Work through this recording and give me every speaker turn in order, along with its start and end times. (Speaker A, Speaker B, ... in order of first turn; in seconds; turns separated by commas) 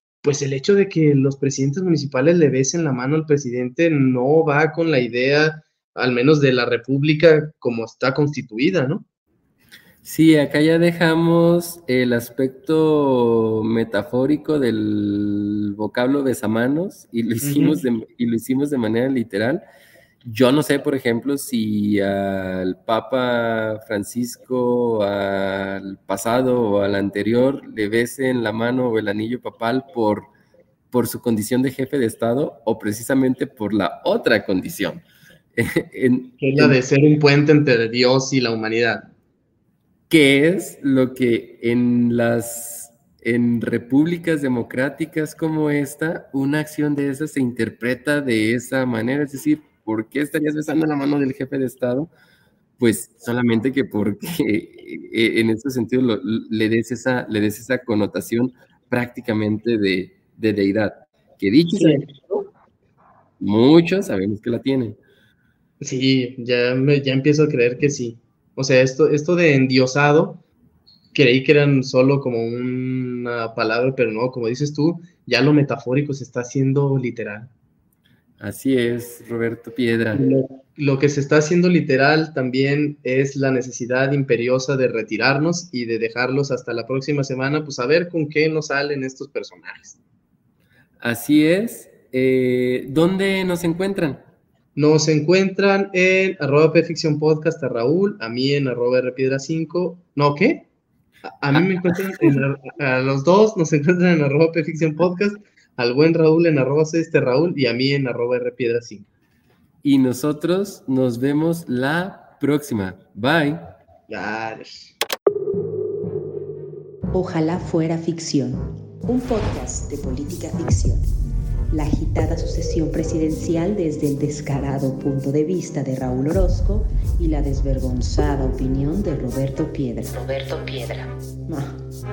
Speaker A: 0.2-9.1, Speaker B: 10.0-19.6, Speaker A: 17.4-17.8, Speaker B: 20.2-30.3, Speaker B: 30.9-35.0, Speaker B: 35.6-36.8, Speaker A: 36.4-39.1, Speaker B: 40.1-52.1, Speaker B: 52.8-62.5, Speaker A: 61.8-62.1, Speaker B: 63.4-65.0, Speaker A: 65.8-70.4, Speaker A: 71.1-77.5, Speaker B: 78.4-80.2, Speaker A: 80.1-90.0, Speaker B: 91.0-94.3, Speaker A: 94.8-100.7, Speaker A: 101.2-109.1, Speaker B: 101.8-102.4, Speaker B: 109.8-113.7, Speaker A: 114.1-114.9, Speaker C: 117.1-121.0, Speaker C: 121.7-131.8